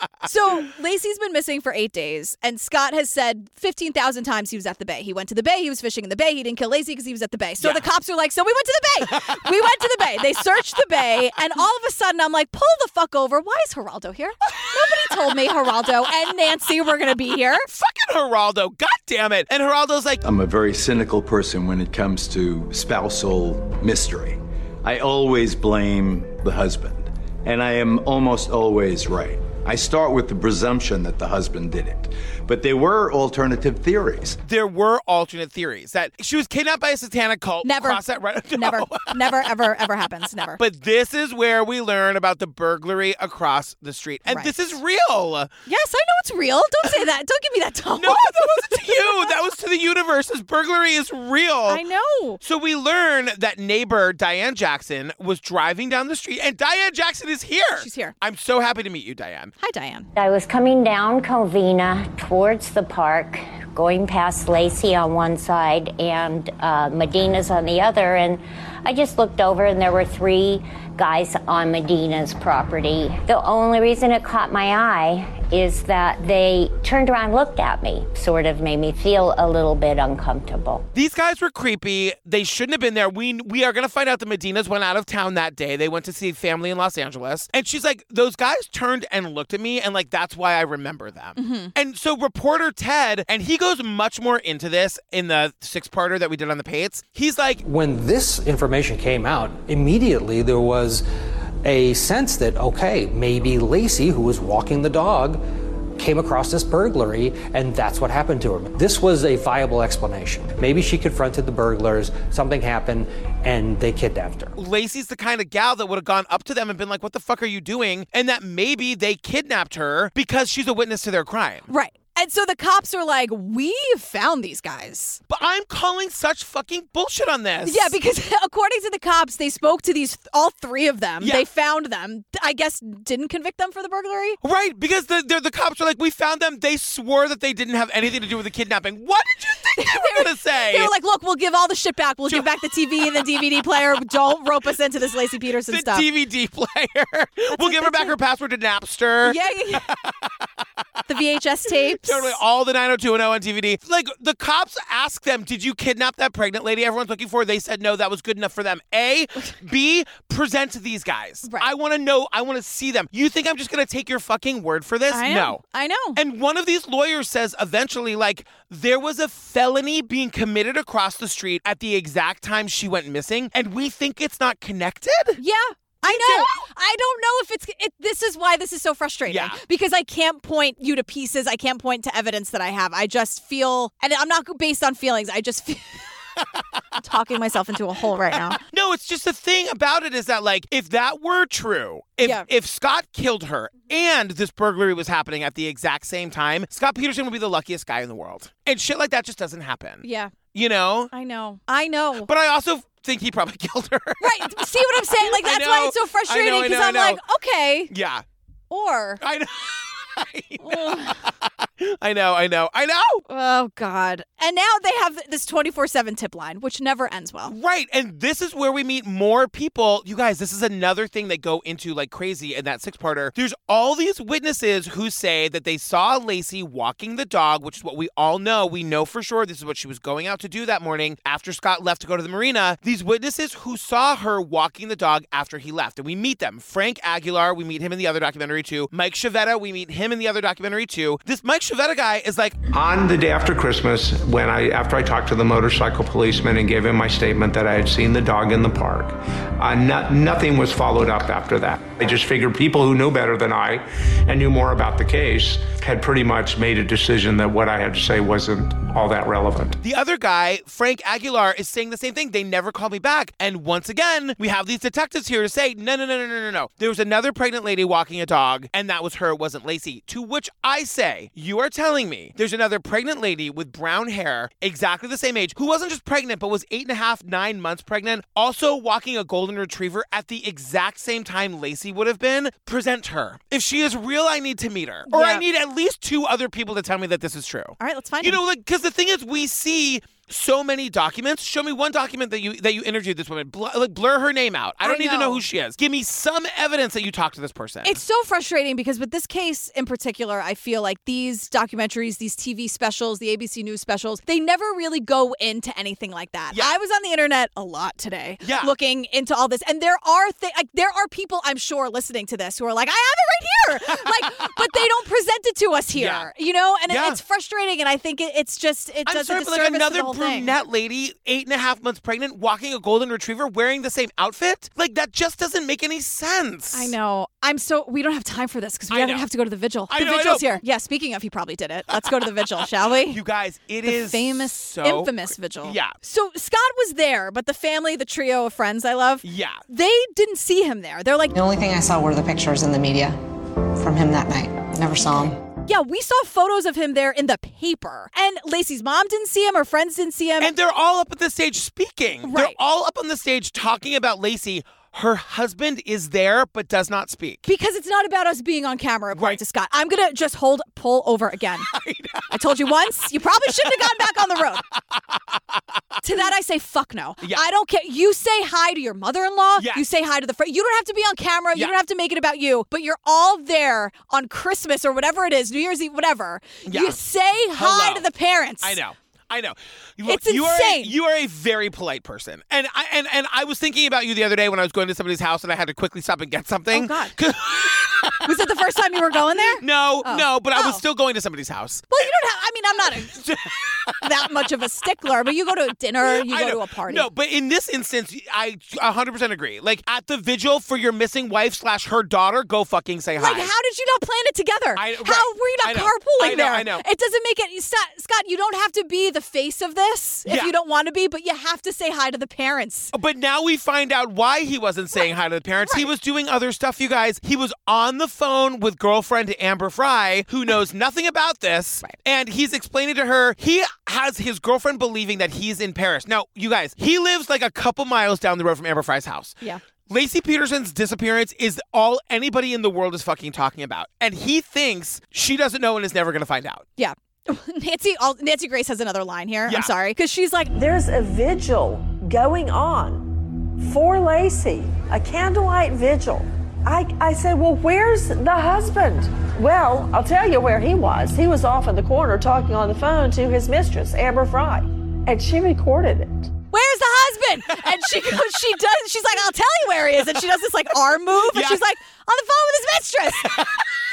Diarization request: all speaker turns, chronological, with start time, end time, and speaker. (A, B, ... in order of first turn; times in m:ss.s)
0:00.3-0:17.7 A
0:09.0-0:09.4 B
0:17.7-0:20.2 B
0:20.2-0:34.4 C
0:34.4-0:39.2 B
0:37.6-0:38.0 A
0:38.5-0:40.6 A
0:40.6-0:45.5 B
0:44.3-0:44.7 A
0:45.7-0:49.4 A
0:48.0-0:51.8 B
0:51.7-0:52.4 A
0:52.4-0:59.5 B
0:57.8-0:58.1 A
0:59.6-1:00.1 A
1:00.2-1:20.8 D
1:20.9-1:37.6 B
1:31.4-1:31.7 A
1:37.7-1:41.0 E
1:41.6-1:45.4 E
1:46.0-1:54.5 E
1:54.6-2:01.7 B
2:01.7-2:05.2 A
2:05.3-2:07.9 B
2:07.6-2:14.4 A
2:14.4-2:20.9 B
2:19.8-2:26.1 A
2:25.7-2:30.3 B
2:27.6-2:28.2 A
2:29.2-2:29.8 A
2:31.1-2:32.4 A
2:32.0-2:45.6 B
2:41.4-2:41.7 A
2:45.1-2:46.2 A
2:46.2-2:55.4 B
2:55.4-3:06.1 A
2:56.0-2:56.6 B
2:59.3-2:59.6 B
3:07.0-3:08.6 A
3:08.3-3:21.1 B
3:20.0-3:20.3 A
3:21.1-3:22.3 A
3:22.2-3:27.2 B
3:24.2-3:27.9 A
3:27.9-3:28.2 B
3:28.7-3:29.2 A
3:29.2-3:33.2 B
3:30.6-3:31.2 A
3:33.3-3:37.6 A
3:37.5-4:02.6 B
4:02.7-4:19.8 F
4:19.8-4:58.0 B
4:45.1-4:45.4 A
4:47.8-4:48.4 A
4:54.8-4:55.4 A
4:57.8-5:20.6 A
5:08.4-5:08.7 B
5:16.0-5:16.3 B
5:16.9-5:17.2 B
5:19.1-5:26.9 B
5:26.7-5:33.2 A
5:28.9-5:29.2 B
5:29.9-5:30.6 B
5:33.1-5:35.9 B
5:33.9-5:41.3 A
5:39.2-5:39.6 B
5:41.3-5:43.2 G
5:43.8-5:45.4 G
5:45.7-5:50.5 A
5:50.4-5:57.4 B
5:52.3-5:52.6 A
5:57.4-6:01.7 A
6:01.7-6:02.3 B
6:02.3-6:04.6 A
6:03.6-6:04.4 B
6:06.0-6:18.8 A
6:09.6-6:09.8 B
6:16.7-6:17.0 B
6:17.5-6:18.1 B
6:18.6-6:28.2 B
6:20.0-6:20.9 A
6:26.7-6:27.2 A
6:28.2-6:30.8 A
6:29.6-6:32.1 B
6:31.9-6:33.2 A
6:33.1-6:34.0 B
6:34.0-6:37.1 A
6:36.0-6:43.5 B
6:43.2-6:52.9 A
6:44.8-6:46.8 B
6:50.3-6:50.5 B
6:52.9-7:09.4 B
6:54.9-6:55.9 A
7:09.9-7:16.6 B
7:16.8-7:20.6 A
7:20.5-7:36.3 H
7:36.5-7:43.4 A
7:41.3-7:41.6 B
7:43.2-7:43.5 B